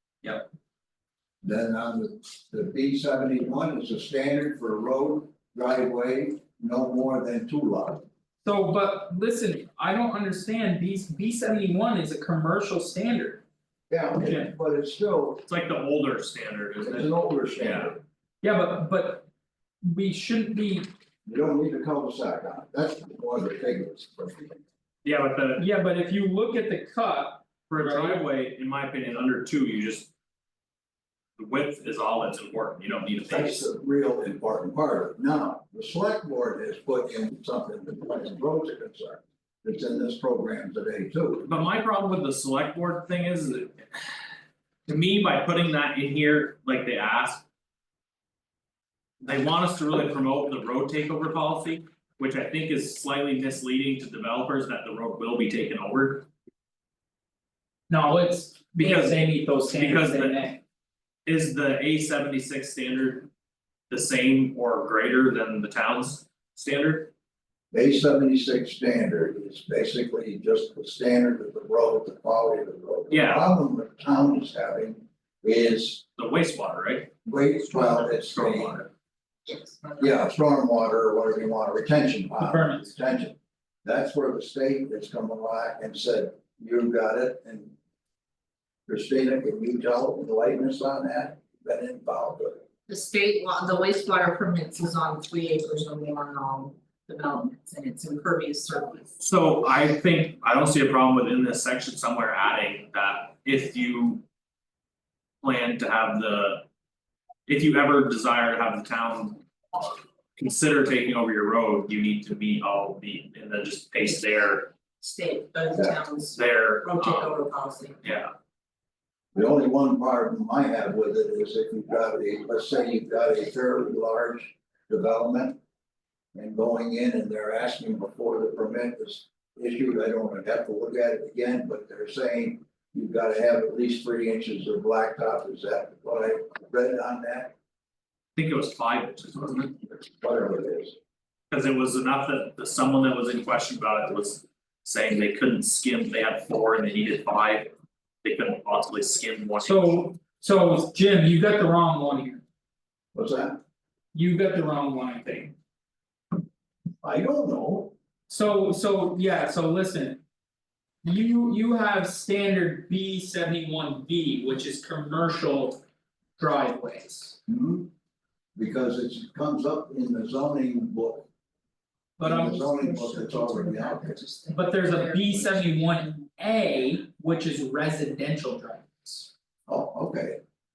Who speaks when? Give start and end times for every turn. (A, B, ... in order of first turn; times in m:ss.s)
0:01.4-0:08.0 A
0:08.4-0:13.4 B
0:13.9-0:15.4 A
0:14.2-0:14.5 B
0:15.4-0:17.9 C
0:16.8-0:18.0 A
0:18.4-0:19.3 B
0:19.8-0:20.9 B
0:21.2-0:24.6 A
0:25.0-0:25.7 C
0:25.6-0:28.2 B
0:27.7-0:30.1 C
0:31.4-0:33.7 C
0:33.2-0:41.5 A
0:41.4-0:44.2 C
0:44.9-0:47.4 C
0:49.2-0:56.3 C
0:57.9-1:00.6 B
0:58.8-1:00.5 C
1:01.2-1:03.3 C
1:03.9-1:07.1 C
1:07.7-1:16.0 A
1:13.1-1:13.5 C
1:16.2-1:17.1 C
1:17.2-1:18.8 A
1:17.7-1:18.9 C
1:19.4-1:20.2 D
1:20.0-1:27.7 A
1:22.4-1:22.9 B
1:28.9-1:32.6 A
1:32.9-1:39.1 D
1:39.2-1:44.2 C
1:45.4-1:46.6 C
1:47.5-1:54.7 C
1:55.0-1:58.0 D
1:56.3-1:57.4 C
1:58.0-1:58.3 C
1:59.3-2:05.6 A
2:06.3-2:17.5 A
2:18.4-2:19.8 C
2:20.2-2:21.0 A
2:21.5-2:30.0 C
2:29.6-2:32.4 B
2:33.1-2:33.6 A
2:34.1-2:35.5 B
2:37.0-2:37.9 A
2:38.3-2:40.2 B
2:41.0-2:45.8 B
2:46.4-2:47.4 B
2:47.5-2:47.9 A
2:48.6-2:51.3 A
2:52.2-2:52.7 B
2:52.2-2:54.2 A
2:52.6-2:55.6 D
2:54.5-2:59.3 B
2:59.7-3:00.4 A